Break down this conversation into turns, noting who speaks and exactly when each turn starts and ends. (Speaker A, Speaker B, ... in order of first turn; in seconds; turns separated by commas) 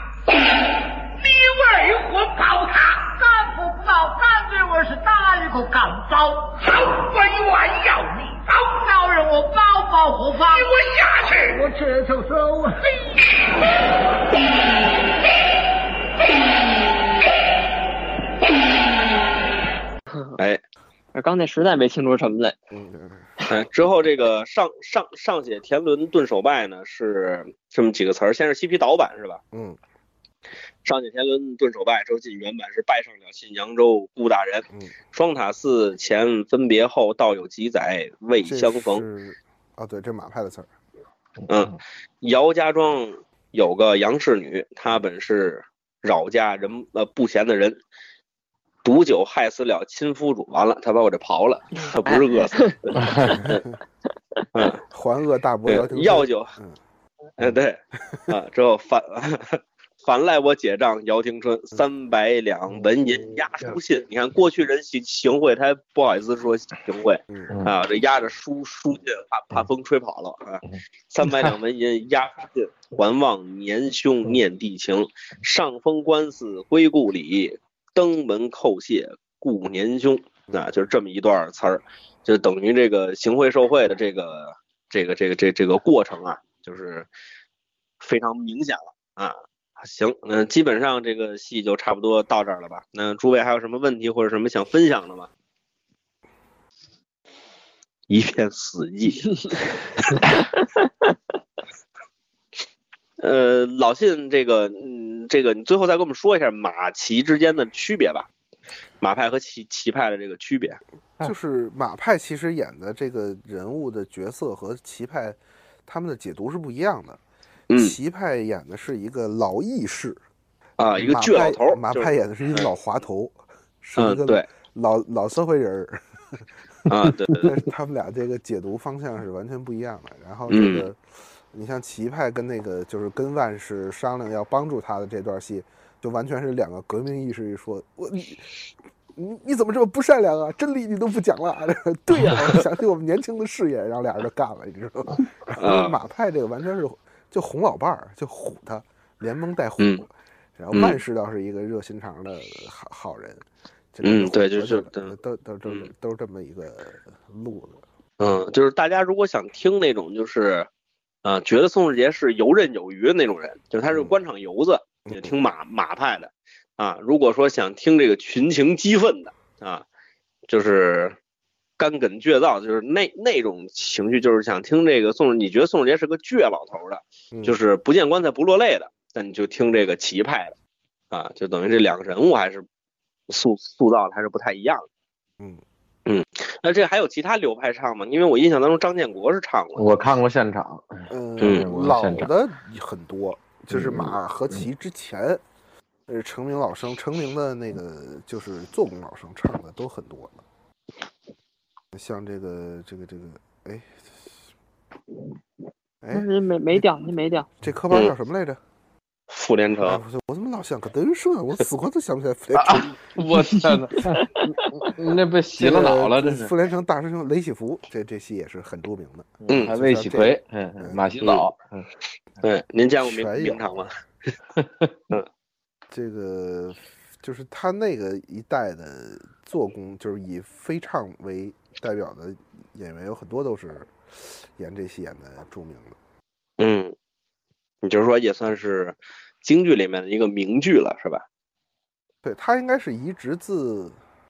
Speaker A: 1.0-13.1, Speaker B: 21.1-22.6, Speaker C: 22.7-23.3, Speaker D: 23.5-29.4, Speaker C: 29.5-29.8, Speaker D: 30.8-39.0, Speaker C: 38.4-40.7, Speaker D: 41.5-47.8, Speaker D: 48.8-53.6, Speaker B: 52.1-52.8, Speaker E: 53.0-53.4, Speaker C: 53.4-53.6, Speaker D: 54.5-54.8, Speaker C: 54.9-56.8, Speaker D: 55.7-56.5, Speaker D: 57.4-87.1, Speaker C: 62.7-63.3, Speaker E: 67.5-67.8, Speaker E: 71.2-71.5, Speaker D: 88.0-95.3, Speaker D: 98.1-99.6, Speaker D: 103.2-108.3, Speaker D: 109.0-110.8, Speaker C: 111.2-117.2, Speaker D: 117.7-118.0, Speaker C: 117.7-120.2, Speaker D: 120.8-122.7, Speaker C: 121.0-126.5, Speaker D: 124.0-124.5, Speaker D: 126.9-127.6, Speaker C: 127.4-131.0, Speaker D: 130.5-130.9, Speaker C: 131.5-138.5, Speaker C: 139.2-157.8, Speaker D: 145.6-146.0, Speaker D: 150.7-151.0, Speaker D: 154.0-155.1, Speaker D: 158.2-160.7, Speaker D: 161.2-169.8, Speaker C: 165.1-165.3, Speaker D: 170.5-171.2, Speaker D: 171.8-180.6, Speaker C: 177.3-177.6, Speaker D: 181.1-182.7, Speaker D: 183.3-184.9, Speaker D: 186.1-189.9, Speaker E: 189.8-192.3, Speaker C: 191.1-195.4, Speaker D: 191.4-191.7, Speaker E: 193.7-194.6, Speaker C: 196.1-200.4, Speaker C: 201.9-204.3, Speaker C: 206.0-207.0, Speaker B: 206.1-207.5, Speaker C: 207.6-208.6, Speaker D: 209.3-210.0, Speaker C: 209.8-213.0, Speaker E: 212.5-216.5, Speaker C: 215.6-221.0, Speaker E: 219.4-221.9, Speaker D: 219.5-219.8, Speaker D: 221.2-221.5, Speaker D: 222.4-223.9, Speaker C: 223.0-223.9, Speaker C: 225.9-236.0, Speaker D: 236.6-236.9, Speaker D: 237.8-241.2, Speaker C: 242.2-244.0